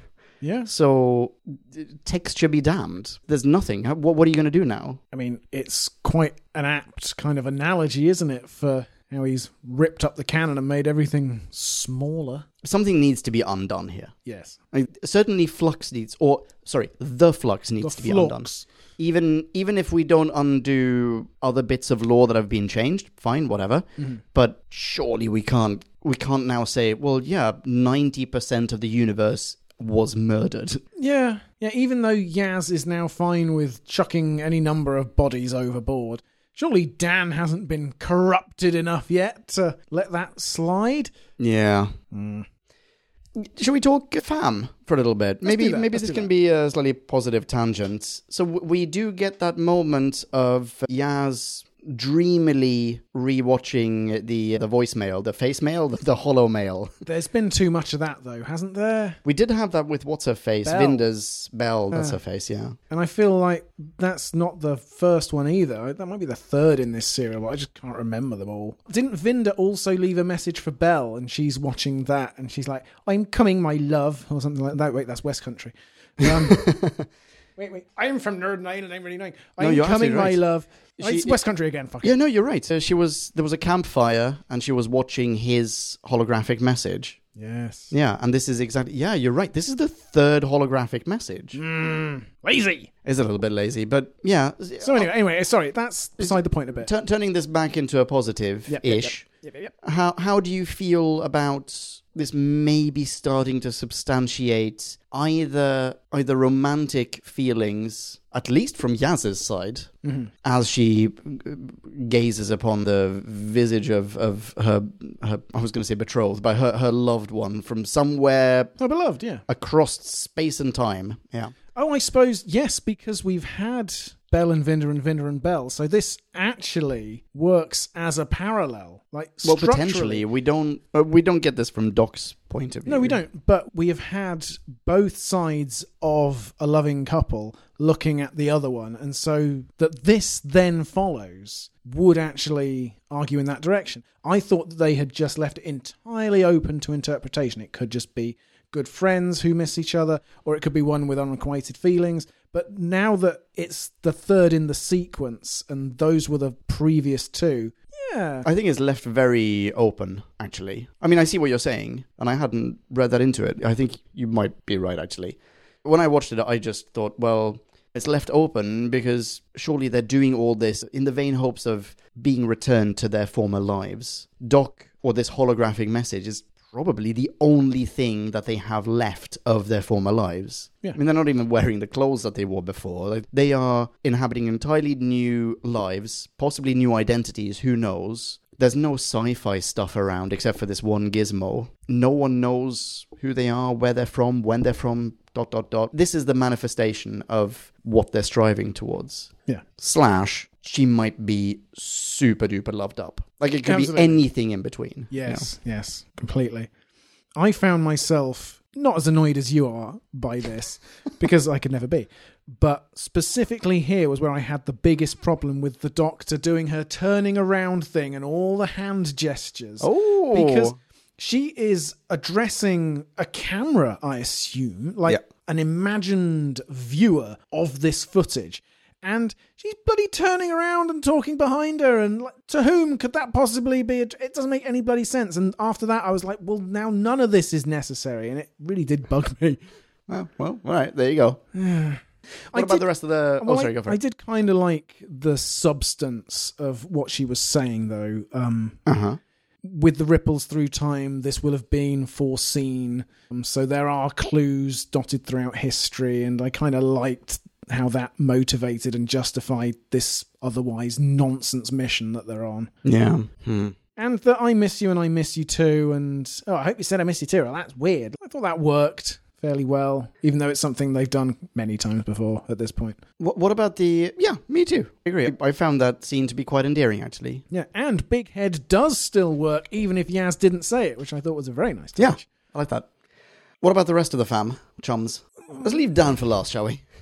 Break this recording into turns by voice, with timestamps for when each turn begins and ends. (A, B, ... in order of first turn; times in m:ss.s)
0:00.4-0:00.7 A
0:00.6-0:05.0 B
0:05.1-0:12.4 A
0:12.6-0:14.1 B
0:14.2-0:14.6 A
0:14.7-0:30.8 B
0:17.8-0:18.6 A
0:31.0-0:41.1 A
0:41.4-0:41.9 B
0:42.1-0:42.4 A
0:43.4-0:56.9 B
0:45.4-0:46.3 A
0:57.0-0:59.2 A
0:59.2-1:02.8 B
1:00.6-1:01.0 A
1:01.9-1:02.2 A
1:02.9-1:16.6 A
1:16.2-1:17.1 B
1:17.6-1:22.1 A
1:19.6-1:20.4 B
1:21.0-1:21.4 B
1:22.0-1:27.2 B
1:27.4-1:27.9 A
1:27.9-1:31.6 B
1:31.5-1:32.9 A
1:33.0-1:35.1 B
1:34.8-1:36.9 A
1:36.2-1:39.2 B
1:38.7-1:39.7 A
1:39.8-1:49.9 B
1:50.0-1:50.3 A
1:50.4-1:58.7 B
1:58.8-1:59.4 A
1:59.5-2:01.5 B
2:01.7-2:10.2 A
2:09.4-2:13.2 B
2:12.8-2:38.4 A
2:38.4-3:25.4 B
3:23.6-3:24.2 A
3:25.1-3:26.7 A
3:27.4-3:59.6 A
3:39.8-3:40.8 B
4:00.1-4:01.4 B
4:01.5-4:02.0 A
4:02.5-4:02.9 A
4:02.5-4:04.0 B
4:03.4-4:08.8 A
4:08.8-4:09.2 B
4:09.6-4:22.7 A
4:22.8-4:23.8 B
4:24.0-4:33.0 A
4:33.2-4:37.4 B
4:37.5-4:42.2 A
4:42.0-4:42.9 B
4:43.6-4:46.8 B